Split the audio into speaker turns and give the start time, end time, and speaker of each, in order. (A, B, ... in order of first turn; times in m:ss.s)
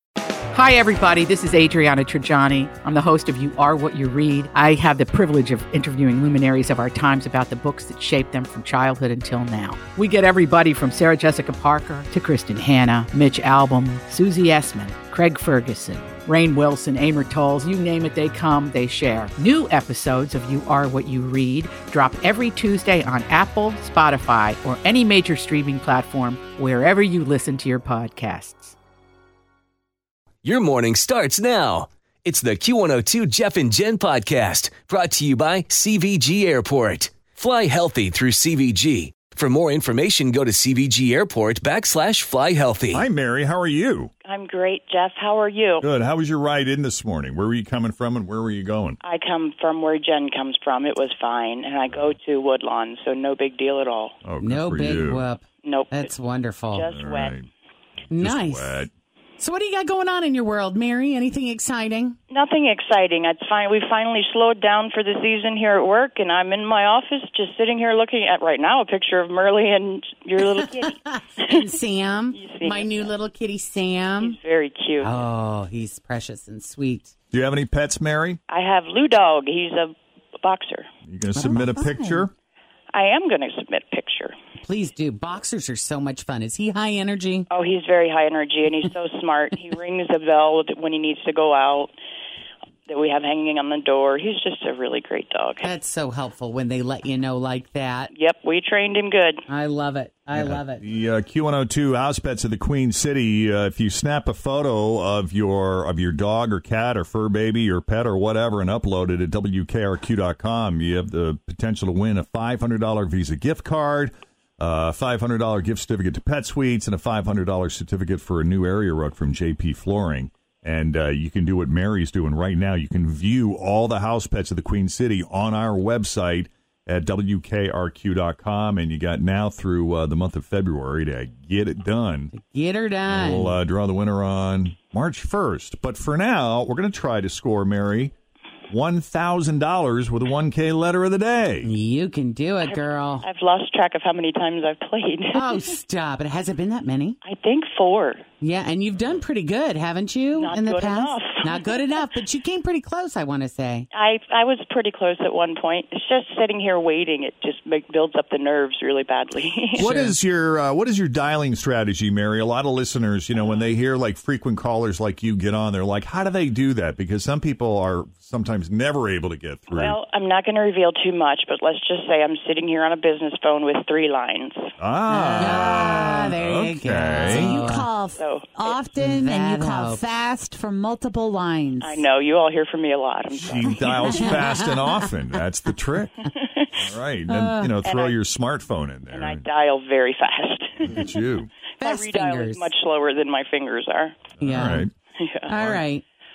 0:00.5-0:28.8 A
0:30.4-0:43.1 B
0:42.9-0:44.1 C
0:44.2-0:45.9 D
0:45.8-0:49.0 C
0:49.0-0:54.1 D
0:54.2-0:55.3 C
0:54.4-0:56.9 E
0:55.6-0:56.1 D
0:56.7-0:57.4 D
0:56.9-0:57.5 C
0:58.1-0:58.9 C
0:58.1-0:58.8 E
0:59.4-1:02.2 E
1:02.3-1:11.6 D
1:10.4-1:14.4 E
1:12.3-1:13.1 D
1:14.2-1:15.3 D
1:15.0-1:17.1 E
1:17.3-1:18.4 C
1:18.5-1:20.9 D
1:21.1-1:22.3 C
1:21.4-1:22.3 F
1:22.9-1:24.3 D
1:24.6-1:27.5 E
1:27.5-1:31.9 D
1:32.9-1:35.7 D
1:35.6-1:38.1 E
1:38.1-1:39.4 D
1:39.5-1:40.8 E
1:40.3-2:12.3 C
2:12.3-2:13.6 E
2:13.1-2:18.1 C
2:18.7-2:21.7 C
2:21.6-2:23.3 E
2:22.6-2:25.7 D
2:25.3-2:27.2 E
2:27.2-2:28.2 D
2:28.4-2:33.9 E
2:30.4-2:31.8 D
2:33.9-2:40.0 D
2:39.8-2:50.0 C
2:39.8-2:40.2 E
2:49.7-2:54.6 D
2:54.8-2:57.7 C
2:55.1-2:56.3 F
2:55.4-2:57.9 E
2:57.1-3:02.0 F
2:58.2-2:58.8 D
2:59.0-3:00.0 E
3:01.8-3:04.2 D
3:03.3-3:06.2 C
3:04.1-3:05.0 E
3:06.3-3:06.7 D
3:06.8-3:09.5 C
3:07.3-3:07.7 E
3:07.8-3:08.2 D
3:09.1-3:11.1 D
3:10.8-3:11.5 C
3:11.8-3:14.2 D
3:11.8-3:12.7 E
3:14.4-3:14.8 E
3:14.4-3:14.9 C
3:15.2-3:15.5 D
3:15.5-3:16.0 E